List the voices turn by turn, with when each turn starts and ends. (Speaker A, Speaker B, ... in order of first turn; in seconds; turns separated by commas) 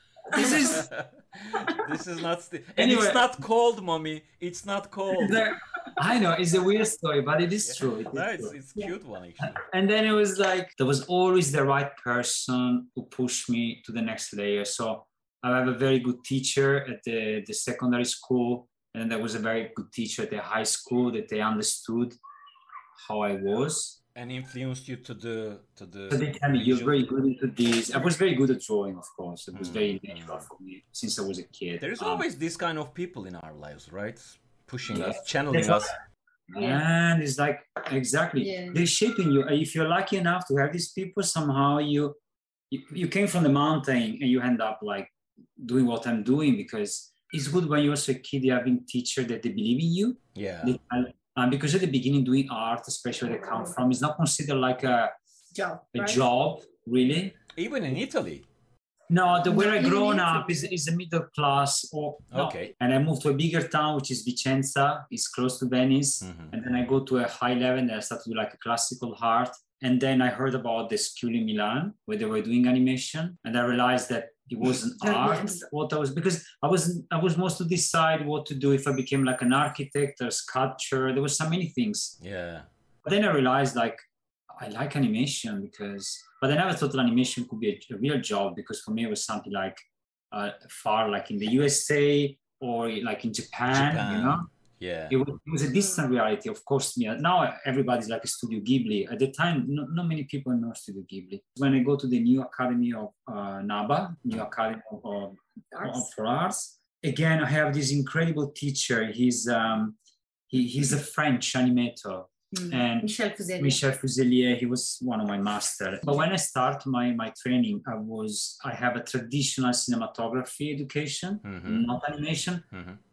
Speaker A: 0.3-0.8, Speaker B: 0.3-0.9, Speaker C: 0.5-5.5, Speaker B: 2.8-3.3, Speaker B: 5.1-8.5, Speaker C: 7.6-9.6, Speaker B: 9.4-22.1, Speaker B: 23.0-24.0, Speaker C: 24.1-27.0, Speaker B: 26.1-32.2, Speaker C: 29.6-30.4, Speaker C: 31.8-35.9, Speaker B: 34.9-35.9, Speaker B: 36.5-42.1, Speaker A: 36.6-36.8, Speaker A: 38.4-38.8, Speaker B: 42.7-55.1, Speaker C: 50.3-50.8, Speaker A: 55.5-56.2, Speaker B: 55.9-57.4, Speaker C: 57.5-58.4, Speaker B: 59.1-82.2, Speaker A: 59.5-60.6, Speaker C: 62.3-62.7, Speaker C: 66.2-66.5, Speaker A: 75.0-75.7, Speaker C: 82.2-82.7, Speaker B: 83.0-94.5, Speaker C: 93.7-95.2, Speaker B: 95.1-110.0, Speaker A: 105.7-106.1, Speaker B: 110.5-122.6, Speaker A: 112.5-113.8, Speaker C: 121.4-121.9, Speaker C: 122.7-123.0